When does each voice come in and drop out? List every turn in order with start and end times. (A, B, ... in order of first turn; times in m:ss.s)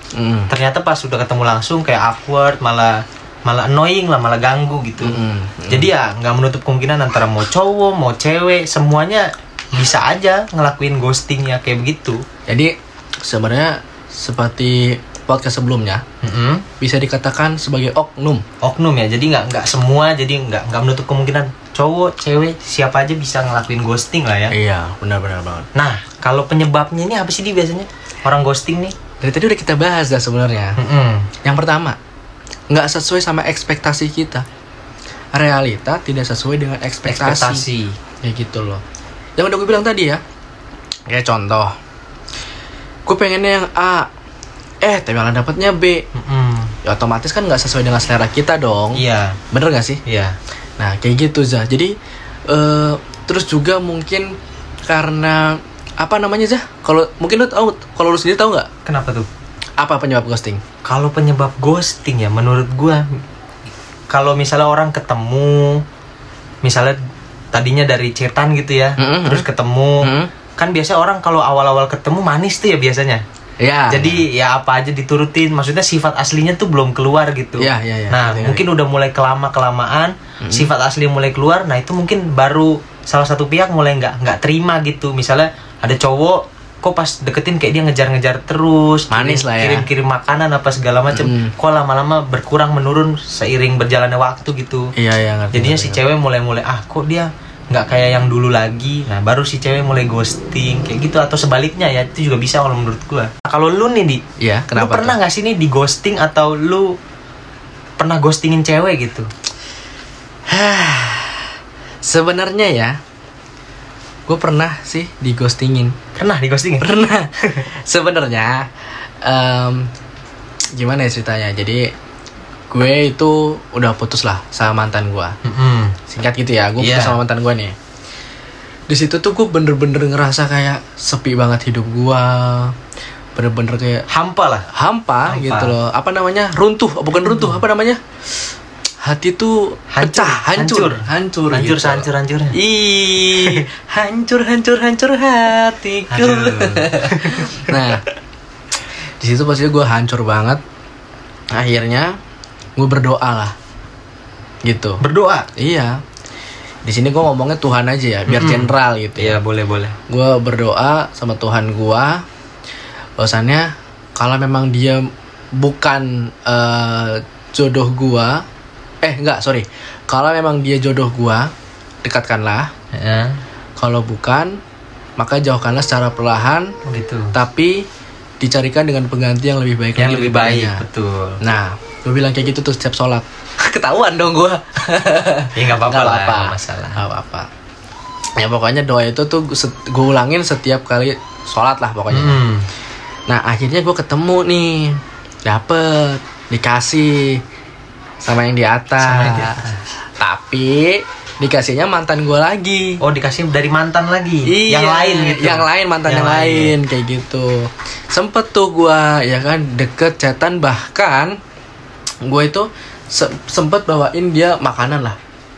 0:00.1-0:00.5 A
0:00.5-0:12.2 B
0:05.0-0:05.9 A
0:12.5-0:16.0 A
0:16.2-0:16.6 B
0:16.8-0:18.4 A
0:18.6-0:24.5 B
0:24.5-0:25.7 A
0:25.7-0:28.9 B
0:29.2-0:30.8 A
0:30.8-0:31.3 B
0:31.4-0:32.0 A
0:32.7-0:34.4 A
0:35.3-0:37.6 A
0:37.0-0:38.0 B
0:38.2-0:38.8 A
0:39.4-0:40.2 A
0:41.1-0:41.7 A
0:43.1-0:44.1 A
0:44.8-0:46.1 A
0:46.1-0:46.7 B
0:46.8-0:50.0 A
0:48.9-0:49.4 B
0:50.0-0:50.4 B
0:50.8-0:51.9 A
0:52.5-0:58.7 A
0:58.8-0:59.3 B
0:59.8-1:00.6 A
1:00.8-1:03.0 B
1:04.1-1:05.8 B
1:06.6-1:07.0 B
1:07.5-1:13.2 B
1:09.0-1:09.4 A
1:10.0-1:10.3 A
1:13.6-1:14.2 A
1:13.9-1:34.9 B
1:17.6-1:18.6 A
1:20.4-1:20.7 A
1:29.1-1:29.9 A
1:31.1-1:31.5 A
1:35.0-1:36.0 A
1:35.5-1:44.2 B
1:44.4-1:45.2 A
1:44.7-1:46.9 B
1:48.0-1:49.3 B
1:50.5-1:51.5 A
1:52.0-1:53.0 A
1:54.3-1:56.0 A
1:56.1-1:56.9 B
1:56.8-1:58.7 A
1:59.2-1:59.9 A
2:00.7-2:01.9 A
2:02.7-2:05.4 A
2:05.4-2:06.0 B
2:06.1-2:07.7 A
2:06.8-2:07.2 B
2:08.9-2:12.7 A
2:13.4-2:14.0 A
2:14.1-2:14.7 B
2:14.7-2:18.0 A
2:15.2-2:15.7 B
2:17.1-2:17.6 B
2:19.0-2:28.0 A
2:19.9-2:22.6 B
2:23.3-2:23.6 B
2:26.1-2:27.9 B
2:29.2-2:30.6 A
2:31.5-2:32.2 A
2:32.8-2:33.5 A
2:34.6-2:35.0 A
2:35.0-2:35.5 B
2:35.6-2:36.0 A
2:36.8-2:39.4 A
2:38.3-2:40.0 B
2:40.1-2:42.2 A
2:43.2-2:48.4 A
2:49.0-2:51.5 A
2:52.0-2:52.7 A
2:52.9-2:53.4 B
2:53.8-2:54.6 A
2:55.2-2:56.7 A
2:56.8-2:57.3 B
2:57.3-2:57.9 A
2:58.4-3:00.8 A
3:00.0-3:01.4 B
3:01.4-3:07.5 A
3:05.5-3:07.0 B
3:08.4-3:12.4 A
3:12.1-3:12.7 B
3:13.3-3:17.4 A
3:18.2-3:19.6 A
3:19.0-3:19.8 B
3:20.2-3:23.0 A
3:23.0-3:26.7 B
3:24.4-3:31.4 A
3:32.2-3:35.2 A